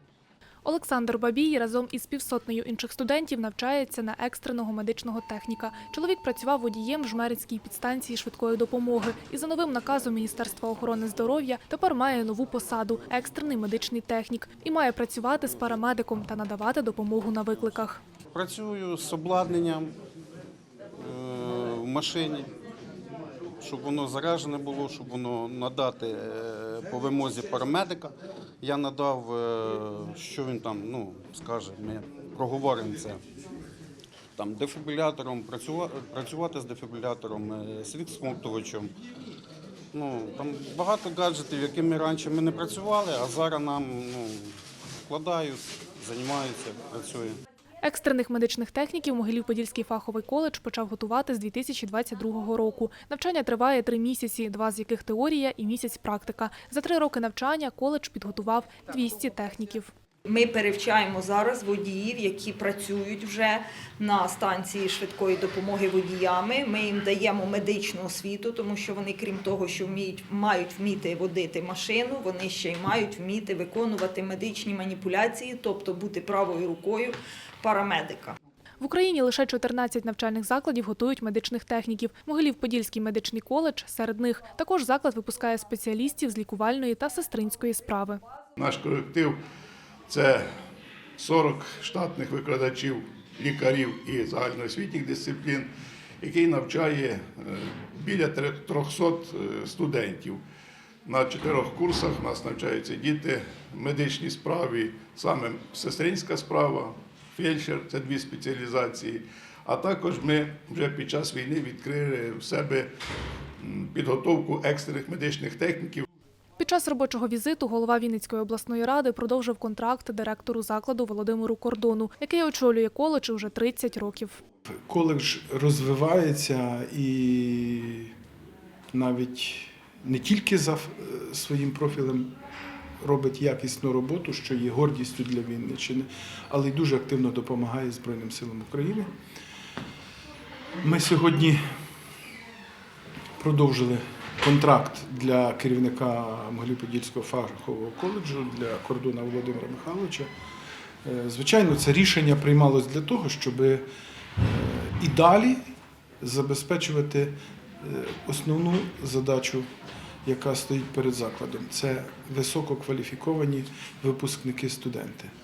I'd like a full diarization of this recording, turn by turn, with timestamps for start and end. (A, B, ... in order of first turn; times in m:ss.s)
0:00.6-0:18.0 A
0:18.3-0:19.9 B
0:21.0-0:22.5 B
0:23.6-0:33.2 B
0:34.4-0:38.9 B
0:39.9-0:47.4 B
0:47.8-0:59.9 A
1:00.2-1:18.4 C
1:18.8-1:28.2 A
1:28.6-1:29.4 D
1:30.1-1:30.4 D
1:31.2-1:35.7 D
1:36.2-1:40.4 D
1:41.0-1:52.9 D
1:53.6-1:56.0 D
1:56.6-2:04.4 A
2:04.9-2:08.1 E
2:08.9-2:12.3 E
2:13.0-2:19.1 E
2:20.8-2:21.6 E
2:23.4-2:30.3 E
2:31.0-2:33.8 E
2:34.4-2:35.6 E
2:36.2-2:39.7 E
2:40.2-2:45.3 E